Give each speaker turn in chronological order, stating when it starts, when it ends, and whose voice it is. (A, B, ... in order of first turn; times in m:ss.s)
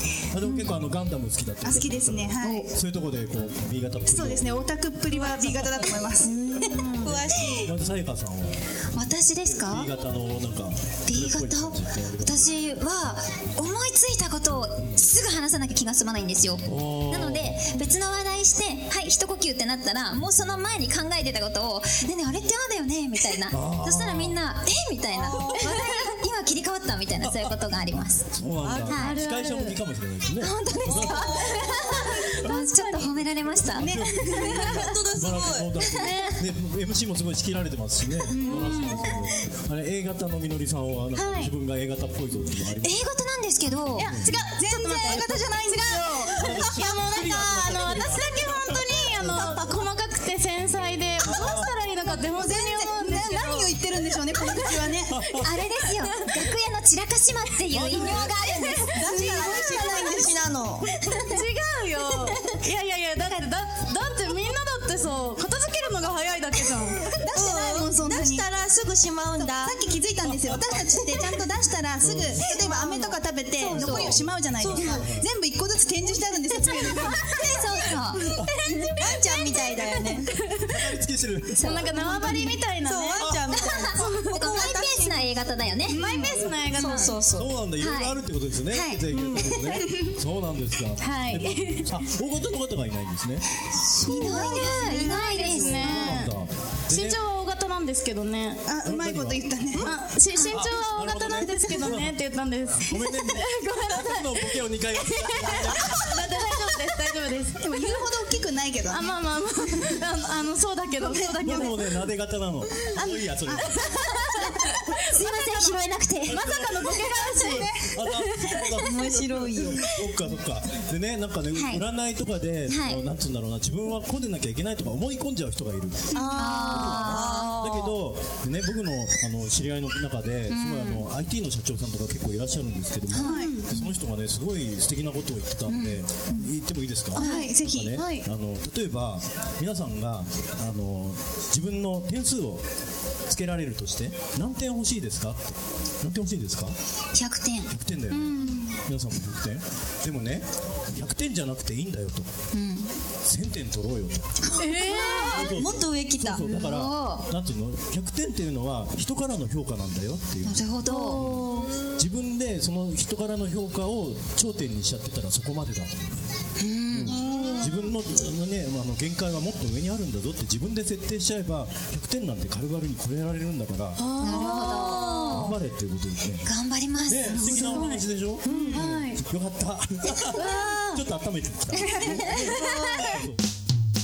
0:00.3-0:04.6 A
0:01.6-0:02.7 B
0:02.4-0:02.7 C
0:04.0-0:07.0 B
0:05.1-0:05.4 D
0:06.4-0:07.7 E
0:06.7-0:07.1 D
0:07.1-0:08.6 A
0:07.1-0:07.6 C
0:08.9-0:09.9 C
0:09.5-0:12.5 A
0:11.0-0:28.3 C
0:16.6-0:17.6 A
0:23.5-0:24.4 A
0:25.1-0:26.1 E
0:27.2-0:27.7 A
0:28.3-0:31.4 A
0:28.6-0:29.8 D
0:28.8-0:29.2 C
0:30.4-0:34.6 C
0:30.8-0:32.2 E
0:32.3-0:33.1 D
0:33.7-0:43.0 A
0:33.8-0:34.8 B
0:34.3-0:35.8 E
0:35.8-0:36.2 C
0:35.8-0:36.4 D
0:38.3-0:39.3 D
0:41.1-0:41.5 D
0:42.8-0:44.1 C
0:44.0-0:53.8 D
0:44.0-0:44.3 A
0:44.4-0:46.7 B
0:45.9-0:49.7 A
0:51.2-0:51.7 A
0:52.1-0:55.2 B
0:54.4-0:54.7 D
0:55.1-0:55.8 A
0:55.4-0:59.0 C
0:56.2-0:56.4 D
0:57.7-0:58.8 A
0:58.6-1:00.1 D
0:59.0-1:00.9 E
0:59.0-1:00.7 B
1:01.0-1:07.1 D
1:02.2-1:02.5 C
1:07.1-1:08.5 B
1:07.3-1:09.8 E
1:09.3-1:17.6 B
1:10.3-1:10.7 A
1:12.0-1:12.5 A
1:12.4-1:13.2 D
1:13.6-1:14.1 C
1:13.6-1:15.3 A
1:14.6-1:15.0 D
1:17.0-1:18.4 C
1:18.3-1:18.6 A
1:18.6-1:20.3 E
1:19.0-1:20.1 B
1:20.0-1:21.0 D
1:20.7-1:21.8 A
1:21.6-1:22.0 C
1:21.6-1:24.3 D
1:21.9-1:22.6 B
1:22.8-1:24.8 E
1:23.2-1:23.5 A
1:23.6-1:26.0 C
1:24.5-1:25.2 B
1:25.9-1:26.9 B
1:25.9-1:27.1 D
1:26.2-1:26.6 A
1:26.7-1:27.2 C
1:26.8-1:27.5 E
1:27.3-1:33.5 A
1:27.8-1:29.8 C
1:31.0-1:32.0 D
1:34.0-1:36.4 D
1:34.0-1:36.2 C
1:34.0-1:35.2 B
1:34.9-1:37.2 A
1:36.9-1:38.7 D
1:38.6-1:39.9 B
1:38.8-1:39.9 A
1:39.8-1:47.8 D
1:40.3-1:40.6 C
1:40.4-1:42.2 A
1:42.8-1:46.2 A
1:47.6-1:49.1 B
1:48.9-1:52.0 D
1:51.0-1:51.4 B
1:51.4-1:54.0 A
1:52.9-1:55.0 D
1:53.4-1:53.8 B
1:55.0-1:58.0 B
1:55.1-1:56.4 C
1:56.2-1:57.1 A
1:56.4-1:57.8 D
1:57.8-2:22.6 A
1:58.3-1:58.6 D
1:58.7-1:59.8 E
2:01.5-2:01.8 C
2:02.7-2:03.0 C
2:06.1-2:06.5 B
2:06.1-2:07.9 E
2:06.3-2:07.5 C
2:10.5-2:11.0 C
2:13.1-2:13.4 C
2:13.2-2:13.9 D
2:13.2-2:13.6 B
2:15.7-2:16.0 C
2:17.1-2:18.0 B
2:17.1-2:18.2 D
2:17.2-2:17.5 C
2:23.3-2:26.8 A
2:27.1-2:27.7 C
2:27.7-2:32.3 A
2:28.1-2:28.8 D
2:32.5-2:32.9 C
2:33.2-2:34.3 A
2:34.5-2:36.4 E
2:34.6-2:35.6 D
2:35.3-2:40.6 A
2:36.4-2:36.6 D
2:36.4-2:37.3 C
2:40.4-2:41.4 C
2:40.8-2:41.8 D
2:41.9-2:46.1 A
2:46.6-2:47.2 C
2:46.9-2:54.1 A
2:47.1-2:47.9 D
2:54.0-2:55.5 D
2:54.2-2:55.6 C
2:55.2-2:56.5 A
2:56.4-2:57.4 C
2:57.0-3:03.4 A
2:57.1-2:59.2 D
2:58.5-2:58.8 B
3:00.3-3:01.0 D
3:01.9-3:02.6 C
3:02.4-3:03.1 D